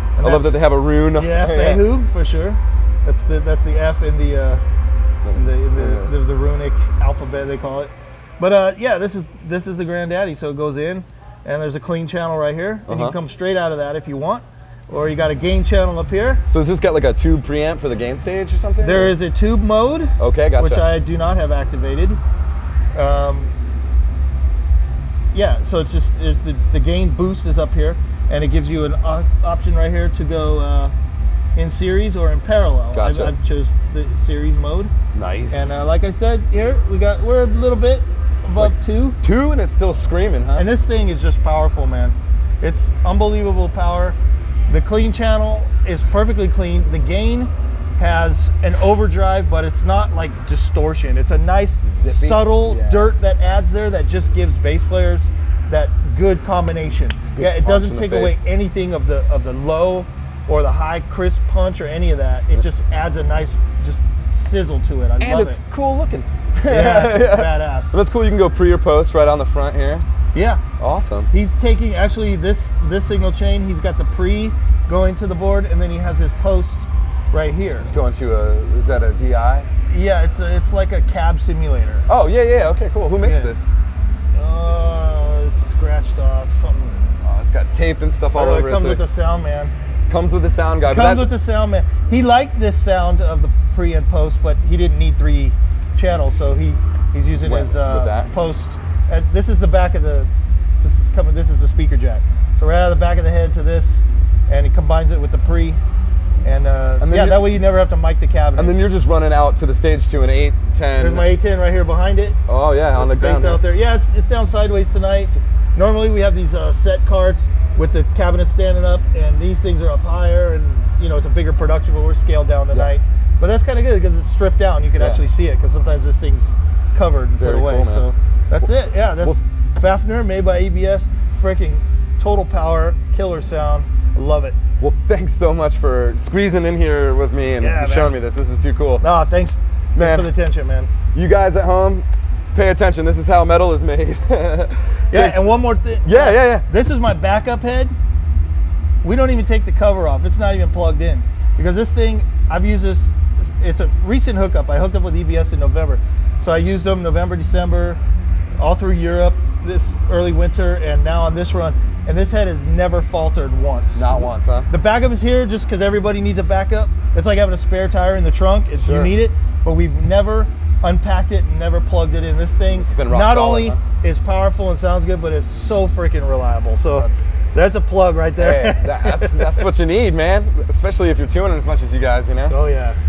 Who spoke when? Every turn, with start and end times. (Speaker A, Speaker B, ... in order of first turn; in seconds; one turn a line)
Speaker A: 0.2-4.6
Speaker B: 0.2-1.9
Speaker B: 5.2-6.1
Speaker A: 5.3-16.4
Speaker B: 12.9-13.2
Speaker B: 16.5-19.1
Speaker A: 18.8-22.2
Speaker B: 20.2-20.9
Speaker A: 22.9-23.5
Speaker A: 25.3-30.9
Speaker A: 31.6-34.9
Speaker B: 32.9-33.4
Speaker B: 35.1-35.7
Speaker A: 35.5-39.2
Speaker B: 38.6-40.7
Speaker A: 40.6-44.2
Speaker A: 44.7-65.6
Speaker B: 51.8-53.1
Speaker B: 57.4-58.4
Speaker B: 65.2-70.1
Speaker A: 66.6-68.0
Speaker A: 70.3-70.6
Speaker B: 70.8-71.3
Speaker A: 71.3-77.9
Speaker B: 77.8-79.7
Speaker A: 79.9-82.1
Speaker B: 82.1-83.7
Speaker A: 83.2-83.5
Speaker A: 84.3-87.0
Speaker B: 87.2-89.0
Speaker A: 88.3-89.7
Speaker B: 90.1-91.3
Speaker A: 90.8-100.3
Speaker B: 97.4-98.3
Speaker A: 100.8-105.8
Speaker A: 106.4-108.9
Speaker B: 107.0-107.6
Speaker B: 108.5-111.3
Speaker A: 111.0-112.4
Speaker B: 112.5-113.7
Speaker A: 113.0-134.6
Speaker B: 125.0-125.2
Speaker B: 127.4-128.1
Speaker B: 134.8-139.1
Speaker A: 137.6-138.1
Speaker A: 139.0-140.9
Speaker B: 139.9-140.3
Speaker B: 141.1-146.7
Speaker A: 145.1-147.9
Speaker A: 149.0-158.0
Speaker A: 158.6-179.6
Speaker B: 163.9-164.7
Speaker B: 168.8-169.2
Speaker B: 172.7-173.8
Speaker B: 176.9-177.3
Speaker B: 178.4-182.6
Speaker A: 182.5-183.0